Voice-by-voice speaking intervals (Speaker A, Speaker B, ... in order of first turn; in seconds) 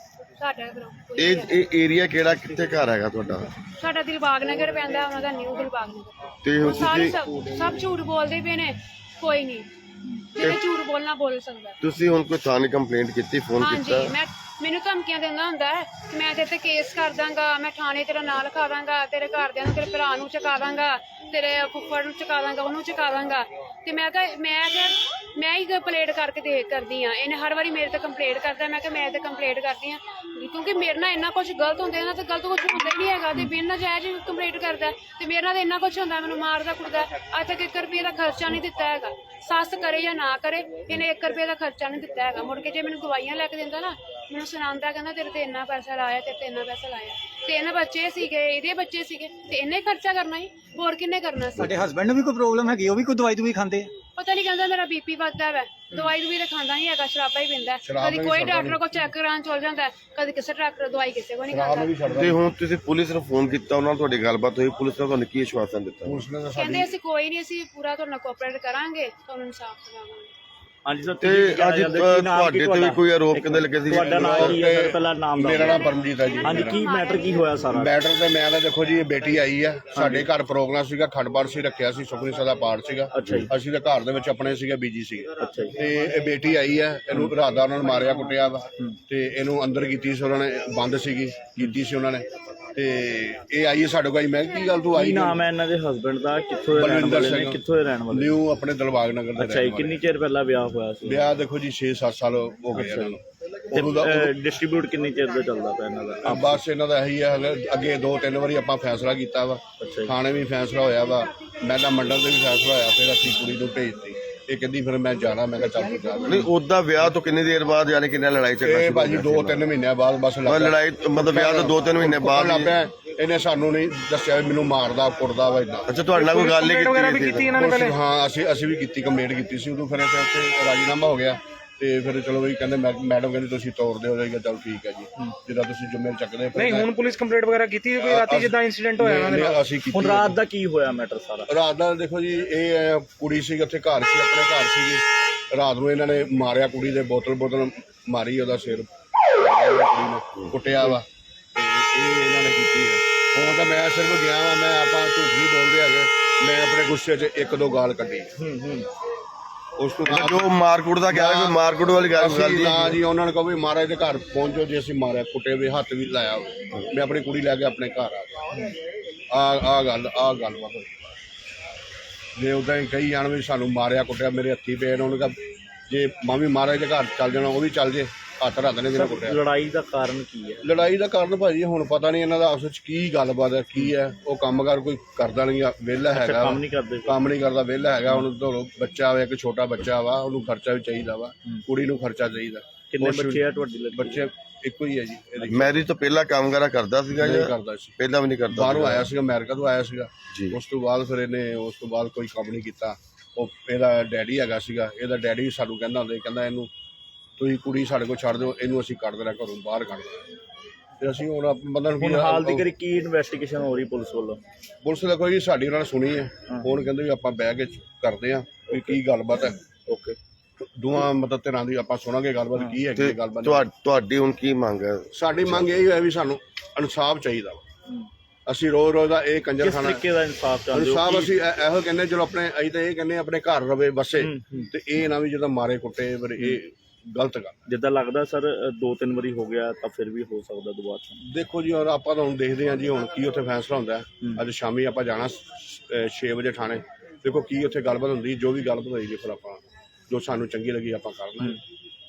Speaker A: 0.4-1.6, 3.8-9.7, 10.3-11.8, 13.6-51.7, 54.2-62.0, 66.5-70.3, 75.7-77.5
Speaker B: 1.2-3.5, 6.4-7.2, 11.8-14.1, 62.1-66.2, 71.2-74.6, 116.2-119.7, 120.5-122.8, 125.9-127.5, 159.8-163.0, 195.5-199.1, 200.3-200.6, 222.9-225.8
Speaker C: 51.6-53.9
Speaker D: 57.9-59.0, 61.5-62.4, 66.1-66.9, 73.9-76.8, 77.8-95.4, 96.7-100.0, 101.0-104.3, 106.2-117.1, 118.6-125.9, 127.4-136.9, 137.9-140.4, 141.5-151.1, 151.6-158.3, 160.1-160.6, 161.1-168.7, 169.3-171.2, 172.4-175.4, 175.9-179.4, 180.6-195.8, 197.2-198.0, 198.5-206.7, 207.4-210.2, 211.0-212.7, 214.8-219.6, 220.6-223.7, 225.1-227.7, 228.5-230.0, 230.7-237.6, 241.2-251.6
Speaker E: 70.8-75.9, 76.4-77.9, 80.0-80.3, 83.1-83.5, 85.4-85.8, 94.9-98.4, 99.4-101.3, 102.8-103.2, 103.7-106.6, 109.8-110.2, 139.9-141.5, 158.4-158.8, 178.9-180.7, 186.1-187.2, 192.9-194.2, 212.0-214.4, 218.7-219.0, 219.9-220.2, 229.6-231.3, 234.2-234.7, 237.7-241.2
Speaker F: 126.1-128.0, 136.6-139.6